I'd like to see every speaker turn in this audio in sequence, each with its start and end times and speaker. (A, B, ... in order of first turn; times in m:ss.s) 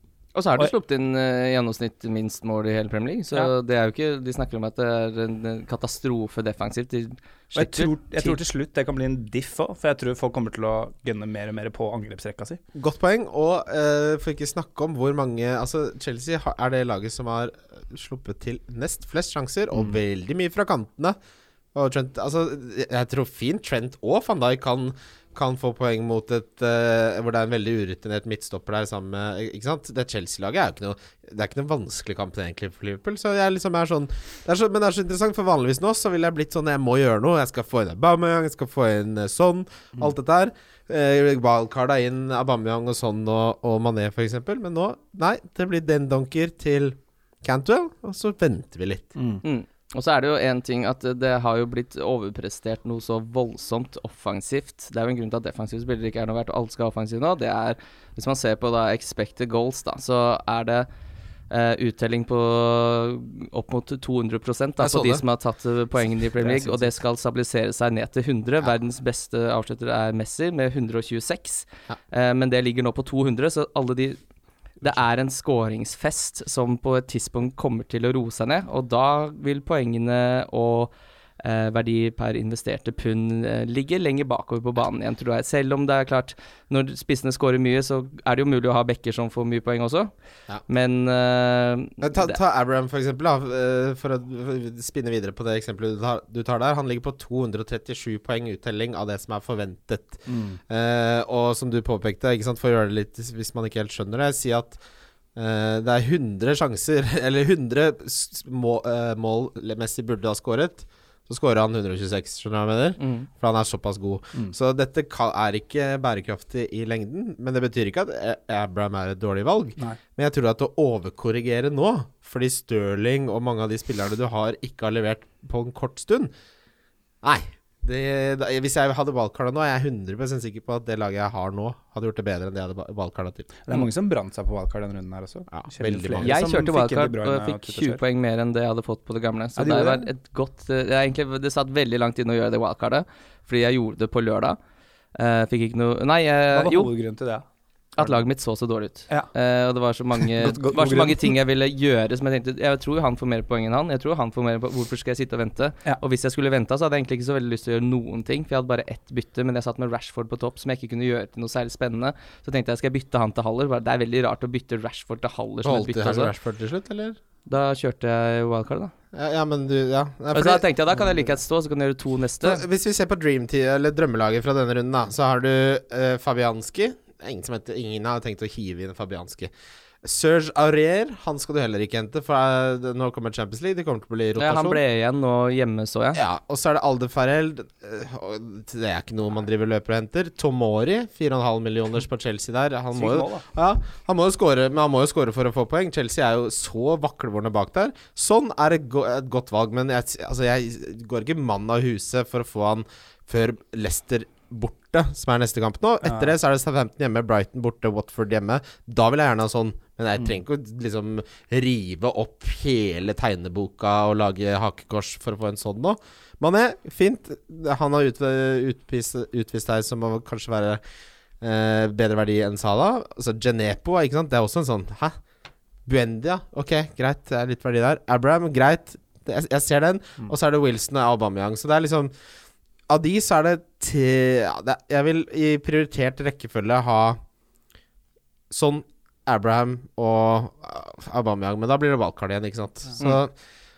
0:00.3-0:08.4 A
0:07.5-0:12.6 B
0:12.7-0:21.2 C
0:21.7-0:49.1 C
0:49.2-0:49.4 B
0:49.4-1:00.9 A
1:01.5-1:14.2 A
1:04.8-1:05.2 C
1:06.4-1:06.9 C
1:14.8-1:30.1 A
1:30.7-1:32.4 A
1:32.0-1:44.8 C
1:40.3-1:40.6 B
1:45.4-2:06.3 C
1:53.0-1:53.3 A
2:07.2-2:13.5 C
2:13.6-2:18.0 B
2:15.5-2:16.4 C
2:16.2-2:24.6 A
2:19.6-2:20.1 B
2:25.1-2:26.9 A
2:26.5-2:27.4 B
2:28.0-2:46.3 A
2:30.2-2:31.3 B
2:45.6-2:47.2 C
2:47.5-2:48.9 A
2:49.1-2:50.7 C
2:50.3-2:52.6 A
2:52.4-2:59.5 C
3:00.0-3:04.8 C
3:04.4-3:06.2 A
3:06.1-3:40.8 C
3:12.9-3:13.4 B
3:26.0-3:26.3 B
3:41.4-3:45.2 C
3:45.8-3:52.1 C
3:52.9-3:57.2 C
3:58.5-4:03.3 C